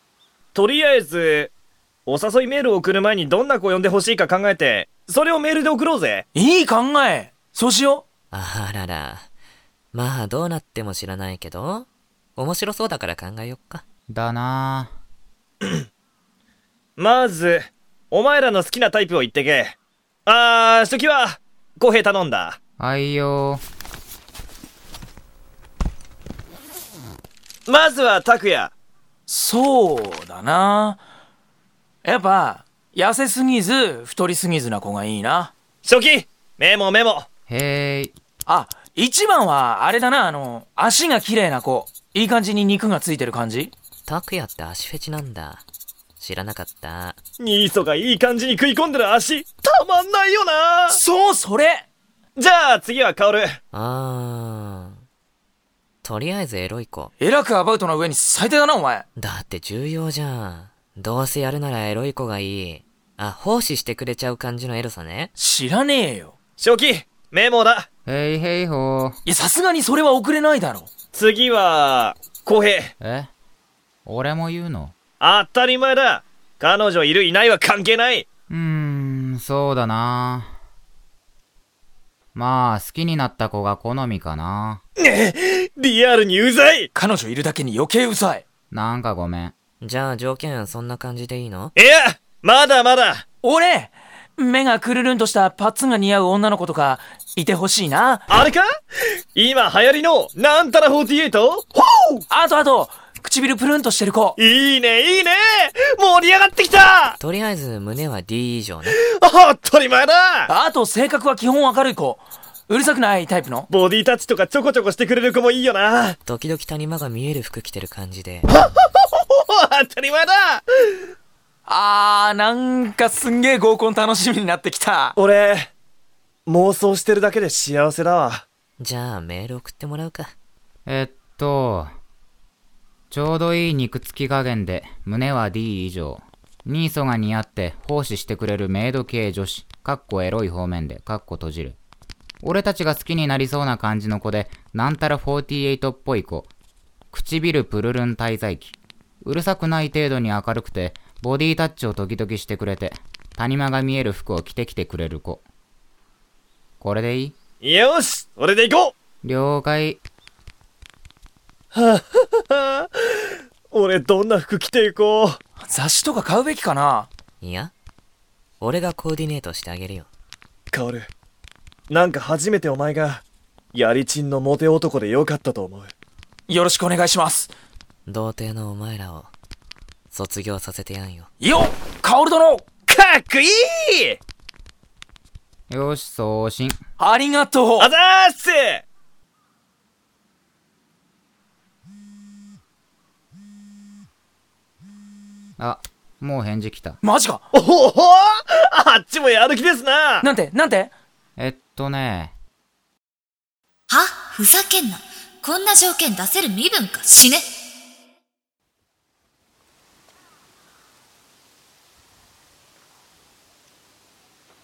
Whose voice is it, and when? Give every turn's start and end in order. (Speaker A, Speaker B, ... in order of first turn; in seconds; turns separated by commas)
Speaker A: 0.6-1.5, Speaker A: 2.1-6.2, Speaker B: 6.3-8.1, Speaker C: 8.3-9.3, Speaker C: 9.9-13.8, Speaker D: 14.1-14.9, Speaker A: 17.0-22.6, Speaker D: 22.8-23.6, Speaker A: 27.7-28.7, Speaker B: 29.3-31.0, Speaker B: 32.0-35.5, Speaker A: 35.8-37.3, Speaker D: 37.5-38.1, Speaker B: 38.5-43.7, Speaker C: 44.1-45.6, Speaker C: 46.2-47.2, Speaker A: 47.4-51.0, Speaker B: 50.9-51.9, Speaker A: 52.4-53.6, Speaker C: 53.7-55.0, Speaker C: 56.0-57.1, Speaker B: 57.2-59.1, Speaker C: 59.2-65.3, Speaker B: 65.4-66.3, Speaker A: 66.6-67.9, Speaker D: 68.1-69.2, Speaker B: 69.2-70.9, Speaker A: 71.1-72.9, Speaker D: 73.0-73.3, Speaker D: 74.1-75.0, Speaker A: 75.2-78.3, Speaker D: 78.5-80.5, Speaker D: 82.3-84.8, Speaker A: 85.0-86.9, Speaker B: 87.0-88.5, Speaker D: 88.7-89.5, Speaker C: 89.8-91.7, Speaker A: 91.8-93.2, Speaker B: 93.4-98.3, Speaker A: 98.3-98.7, Speaker A: 99.3-102.1, Speaker B: 102.3-104.4, Speaker A: 104.4-107.2, Speaker C: 107.2-109.0, Speaker A: 109.1-110.5, Speaker B: 110.5-113.7, Speaker A: 113.7-116.2, Speaker C: 116.2-118.5, Speaker A: 118.5-121.0, Speaker B: 121.7-125.2, Speaker A: 125.2-125.7, Speaker A: 126.5-128.4, Speaker C: 128.8-130.3, Speaker D: 130.9-131.9, Speaker D: 133.1-141.8, Speaker D: 142.4-146.5, Speaker D: 147.1-155.4, Speaker D: 156.8-157.4, Speaker A: 157.6-158.9, Speaker D: 159.2-160.0, Speaker A: 161.7-165.4, Speaker B: 165.6-167.1, Speaker C: 167.4-167.7, Speaker C: 168.6-170.1, Speaker A: 170.7-171.1, Speaker A: 171.9-175.9, Speaker B: 176.5-177.5, Speaker C: 178.1-179.3, Speaker C: 180.1-181.3, Speaker B: 181.4-182.7, Speaker A: 182.9-184.2, Speaker D: 185.7-186.8, Speaker B: 187.0-187.9, Speaker A: 187.8-188.8, Speaker D: 195.6-197.0, Speaker B: 197.0-197.4, Speaker A: 197.5-200.2, Speaker B: 200.2-200.9, Speaker D: 201.4-202.3, Speaker E: 203.9-207.5